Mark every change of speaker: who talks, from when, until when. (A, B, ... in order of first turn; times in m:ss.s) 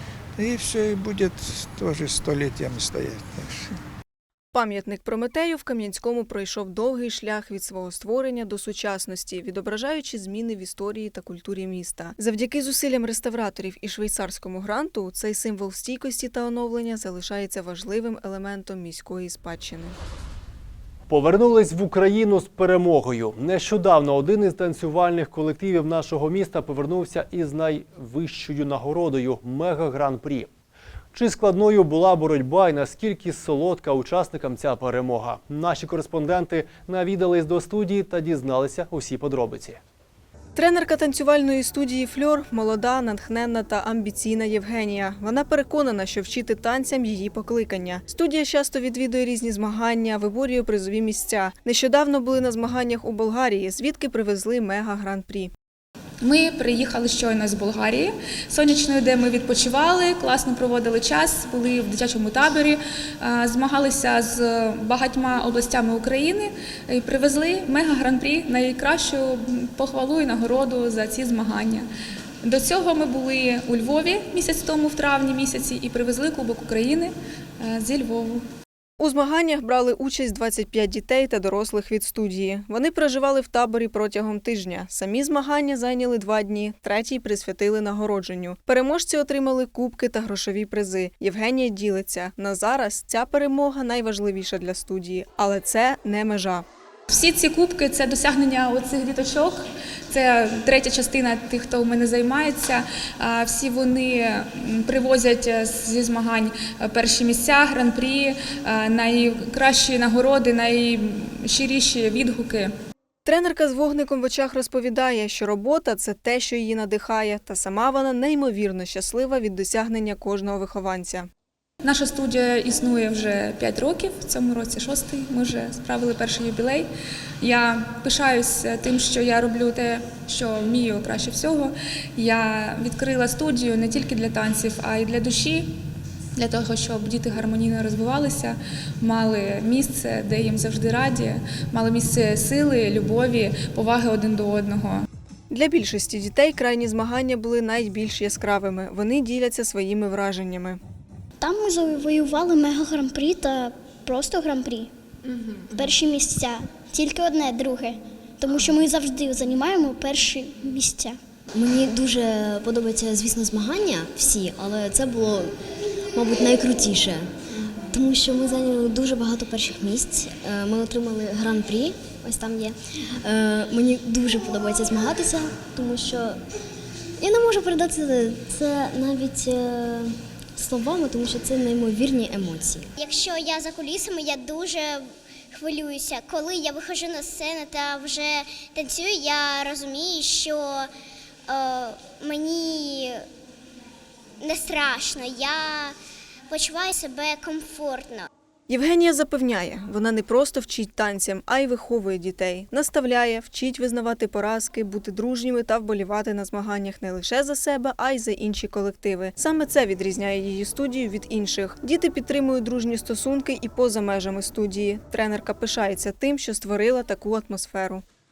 0:00.4-0:03.7 A
0:04.5-0:20.0 B
0:21.1-0:30.5 C
0:31.1-0:39.8 C
0:40.6-0:55.5 B
0:56.2-1:11.9 D
1:12.4-1:18.4 D
1:19.0-1:36.6 B
1:37.1-1:52.7 D
1:53.2-2:01.3 B
2:01.8-2:06.9 D
2:07.4-2:15.7 D
2:16.4-2:25.0 D
2:25.5-2:30.8 B
2:31.4-2:34.9 E
2:35.3-2:35.9 B
2:35.7-2:41.2 E
2:41.5-2:45.6 F
2:46.1-2:56.4 F
2:57.2-3:02.9 F
3:03.0-3:10.9 E
3:11.5-3:13.2 E
3:14.4-3:16.0 E
3:16.5-3:18.3 E
3:18.7-3:38.0 B